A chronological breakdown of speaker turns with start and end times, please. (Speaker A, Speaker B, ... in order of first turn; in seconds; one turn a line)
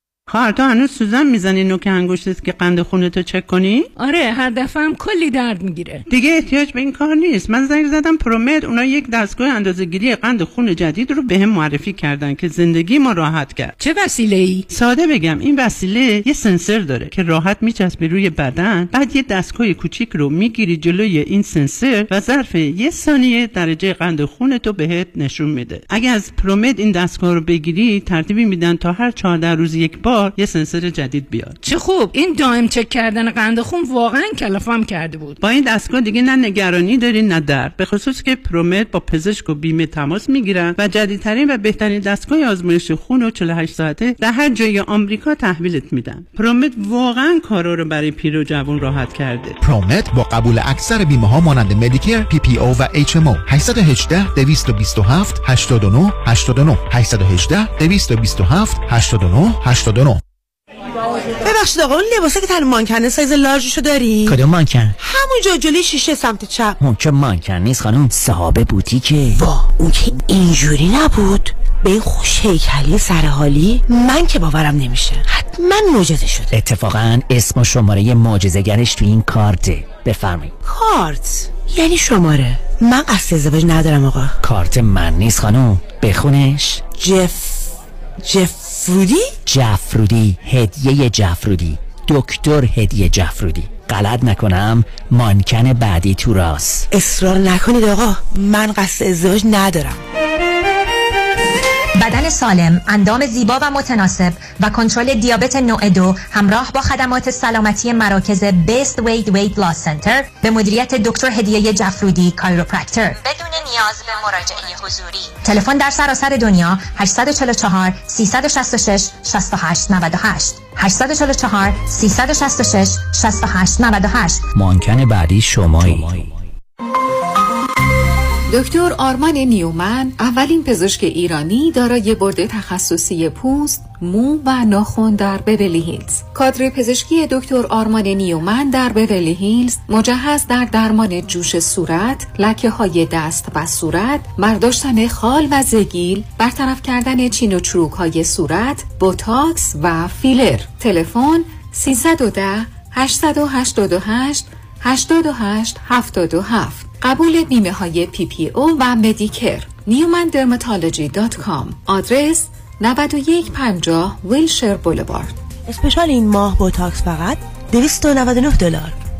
Speaker A: 0.3-3.9
Speaker B: 4.0-6.0
Speaker A: 6.1-13.8
Speaker B: 13.8-14.7
Speaker A: 14.7-31.6
Speaker B: 31.6-35.4
Speaker A: 35.4-49.6
Speaker C: 49.6-60.2
Speaker D: 61.4-64.4
Speaker E: 64.3-64.9
Speaker D: 65.0-66.8
Speaker E: 66.8-69.4
Speaker D: 69.3-76.5
Speaker E: 76.5-80.5
Speaker D: 80.7-84.3
Speaker E: 84.4-86.8
Speaker D: 86.8-89.4
Speaker E: 89.5-96.9
Speaker D: 96.9-100.0
Speaker F: 102.0-124.5
Speaker E: 124.5-126.3
Speaker G: 128.5-165.3
Speaker D: 165.7-169.0